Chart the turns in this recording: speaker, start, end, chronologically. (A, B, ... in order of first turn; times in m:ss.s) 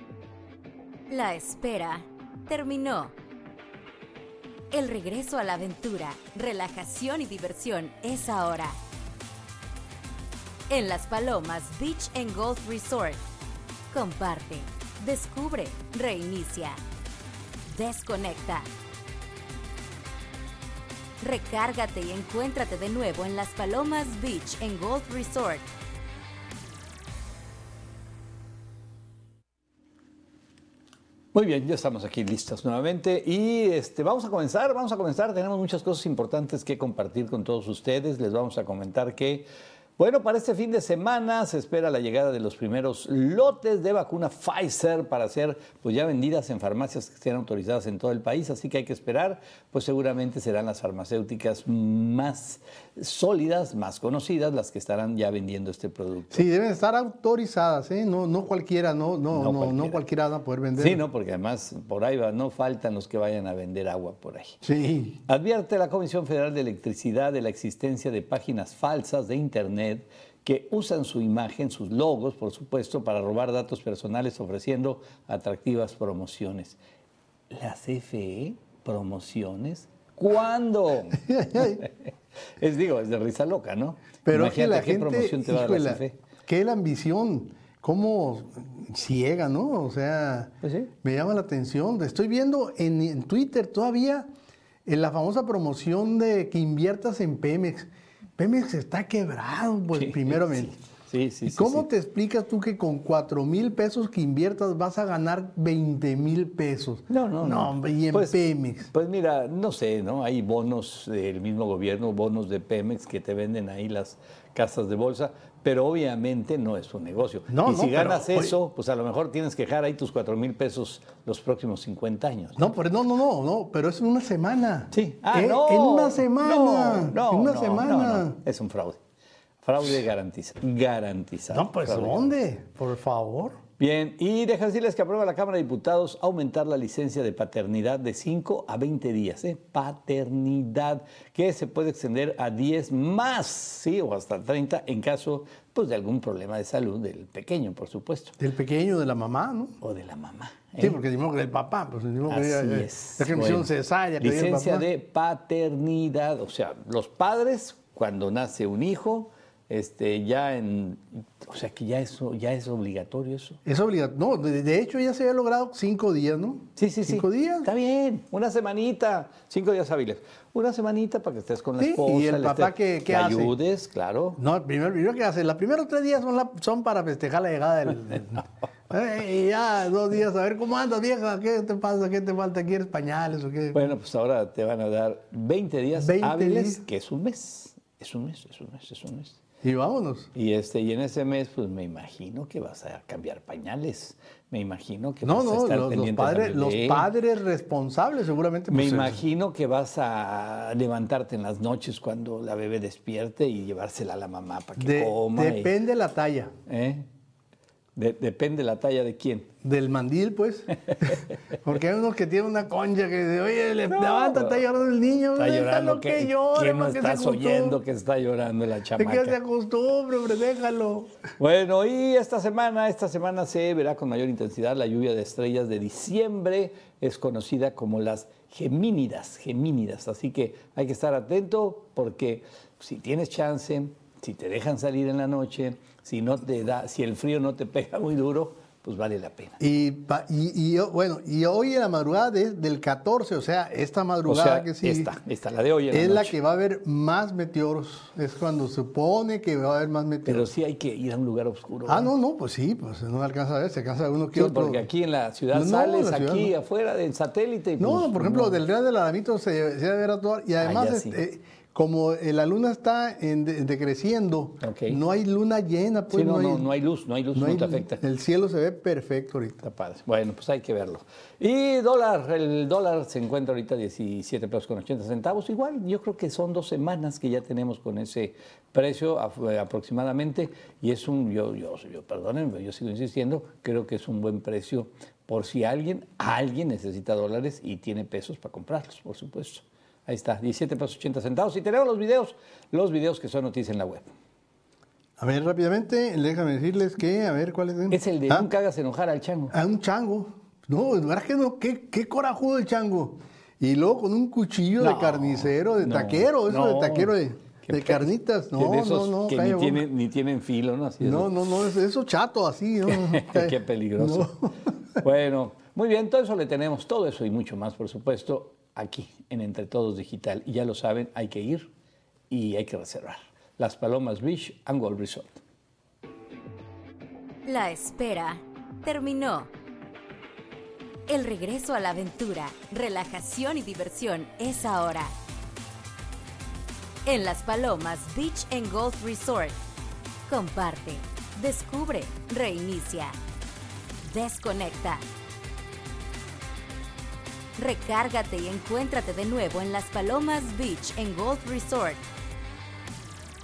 0:01.1-0:03.1 A
0:04.7-0:08.8 A
0:10.7-0:13.2 A
0:13.9-0:16.8 A
0:17.7-0:18.7 A
0:21.2-0:25.7 A
0:31.3-0:39.4 B
0:40.0-0:56.4 B
0:56.3-1:01.0 C
0:59.3-1:00.0 B
1:00.8-1:04.6 B
1:04.6-1:05.2 C
1:05.3-1:16.8 B
1:17.5-1:21.9 B
1:21.1-1:21.8 C
1:22.6-1:26.2 B
1:24.2-1:34.3 C
1:30.6-1:30.9 B
1:34.8-1:40.8 C
1:39.9-1:41.8 B
1:41.4-1:48.9 C
1:47.1-2:02.6 B
1:57.5-1:58.5 C
2:02.6-2:08.4 C
2:04.9-2:09.0 B
2:09.6-2:12.3 B
2:11.5-2:13.6 C
2:13.8-2:28.4 B
2:28.4-2:29.8 C
2:29.8-2:31.0 B
2:30.8-2:34.9 C
2:32.3-2:33.7 B
2:34.2-2:43.6 B
2:43.6-2:47.7 C
2:46.8-2:54.4 B
2:51.8-2:53.5 C
2:54.4-3:03.8 C
3:03.7-3:09.4 B
3:06.0-3:06.8 C
3:09.6-3:10.3 C
3:10.3-3:17.1 B
3:15.2-3:19.2 C
3:18.7-3:25.7 B
3:24.8-3:26.5 C
3:26.7-3:27.1 B
3:28.0-3:29.5 B
3:29.6-3:37.8 C
3:33.9-3:34.6 B
3:35.4-3:39.4 B
3:39.0-3:41.1 C
3:41.4-3:59.6 B
3:59.6-4:05.1 C
4:04.3-4:06.3 B
4:05.9-4:10.5 C
4:10.2-4:12.1 B
4:11.8-4:14.9 C
4:14.3-4:18.6 B
4:15.5-4:16.5 C
4:17.8-4:26.7 C
4:20.6-4:21.2 B
4:24.6-4:25.0 B
4:26.1-4:28.0 B
4:27.3-4:29.6 C
4:29.6-4:54.1 B
4:55.2-4:58.5 C
4:57.9-4:59.5 B
4:59.5-5:09.8 C
5:04.8-5:11.4 B
5:11.0-5:15.0 C
5:12.9-5:14.3 B
5:15.0-5:21.7 B
5:22.3-5:25.4 B
5:27.4-5:29.5 A
5:31.1-5:35.1 A
5:37.0-5:39.6 A
5:40.3-5:43.2 A
5:44.0-5:45.0 A
5:47.6-5:52.0 A